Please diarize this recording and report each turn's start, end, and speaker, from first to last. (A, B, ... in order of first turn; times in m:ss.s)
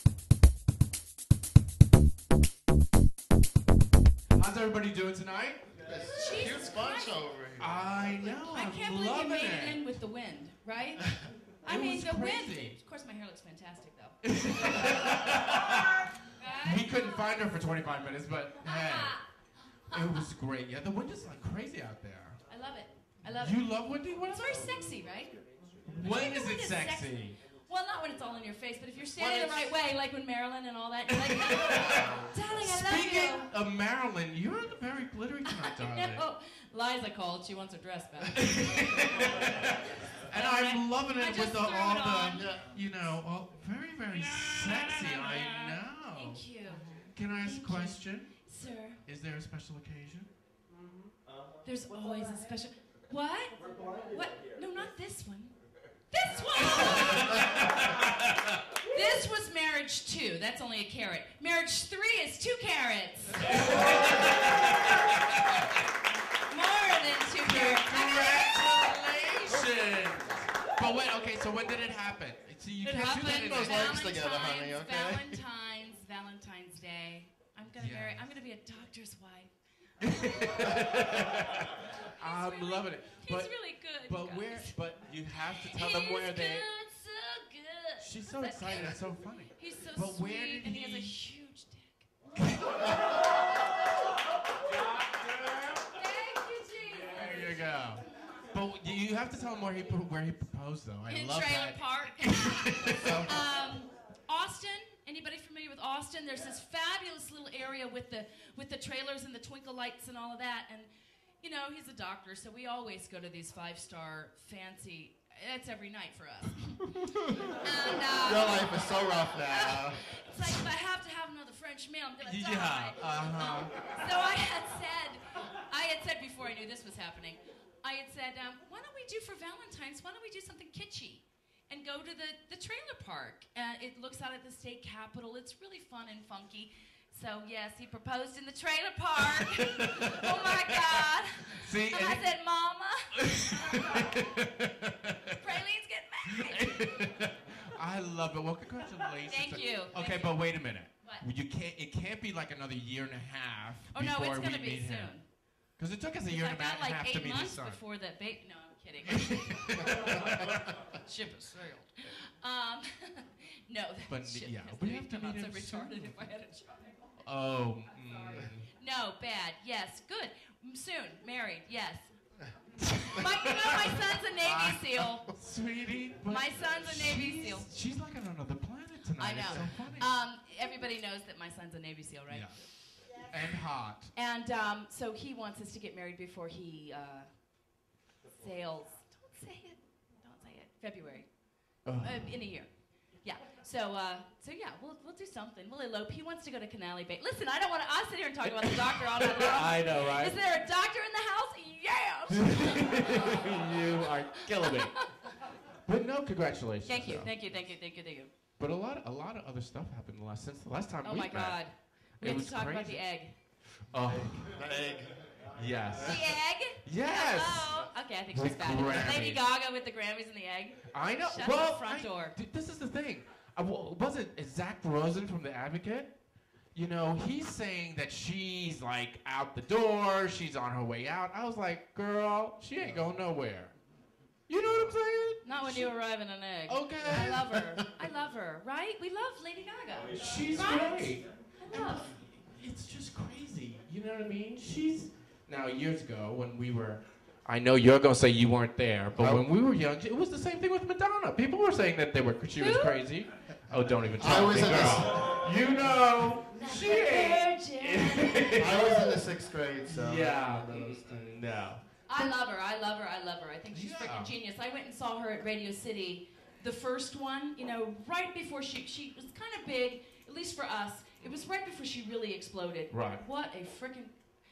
0:04.3-0:05.7 A
0:05.8-0:08.4 B
0:06.1-0:07.2 C
0:07.6-0:09.8 A
0:08.4-0:14.2 C
0:11.6-0:12.8 A
0:14.3-0:15.9 A
0:16.3-0:17.4 C
0:16.6-0:22.5 A
0:18.6-0:19.3 C
0:19.8-0:20.2 C
0:22.5-0:25.3 C
0:23.2-0:24.7 A
0:25.8-0:27.4 A
0:26.0-0:33.5 C
0:29.2-0:29.6 B
0:31.2-0:36.2 A
0:31.8-0:32.4 B
0:35.4-0:38.8 C
0:38.5-0:39.2 A
0:40.2-0:46.4 A
0:40.3-0:42.5 C
0:42.3-0:42.8 B
0:46.1-0:49.0 C
0:47.1-0:50.3 A
0:51.6-0:57.4 C
0:56.9-0:58.5 A
0:58.8-1:04.2 C
1:03.4-1:05.4 A
1:06.5-1:08.9 C
1:07.4-1:14.0 A
1:12.8-1:32.1 C
1:13.3-1:15.4 B
1:17.7-1:18.3 A
1:20.0-1:26.6 A
1:28.0-1:31.1 A
1:32.3-1:33.2 A
1:34.7-1:35.8 A
1:35.9-1:37.6 C
1:37.1-1:43.3 A
1:41.1-1:50.9 C
1:43.0-1:43.3 B
1:51.4-2:24.1 C
1:58.1-2:00.2 B
2:02.2-2:03.8 A
2:19.5-2:21.0 A
2:21.6-2:22.4 A
2:23.1-2:25.3 A
2:25.4-2:27.0 C
2:26.5-2:37.8 A
2:29.2-2:31.2 C
2:33.9-2:35.3 C
2:36.3-2:46.9 C
2:39.2-2:40.6 A
2:44.1-2:46.1 A
2:47.2-2:48.7 A
2:48.4-2:52.1 C
2:52.8-2:55.3 C
2:54.4-3:00.1 A
2:56.2-2:57.8 C
2:59.2-3:03.3 C
2:59.4-2:59.8 B
3:02.3-3:04.1 A
3:04.1-3:07.5 C
3:08.3-3:23.4 C
3:11.8-3:12.4 A
3:18.5-3:20.4 A
3:22.3-3:25.3 A
3:24.5-3:25.4 C
3:25.8-3:27.3 A
3:26.8-3:28.3 C
3:28.6-3:34.6 A
3:31.0-3:33.4 C
3:33.9-3:35.3 B
3:35.5-3:39.4 A
3:36.0-3:42.4 C
3:40.9-3:46.1 A
3:46.7-3:53.8 A
3:52.8-3:53.1 B
3:54.5-3:57.6 A
3:54.6-3:55.0 B
3:55.4-4:02.2 C
3:57.0-3:57.8 B
4:00.1-4:19.2 A
4:09.1-4:09.4 B
4:12.5-4:13.0 C
4:13.7-4:16.0 B
4:16.5-4:18.9 C
4:18.6-4:21.2 B
4:19.8-4:22.3 A
4:22.1-4:34.1 C
4:23.7-4:24.3 A
4:32.9-4:33.2 A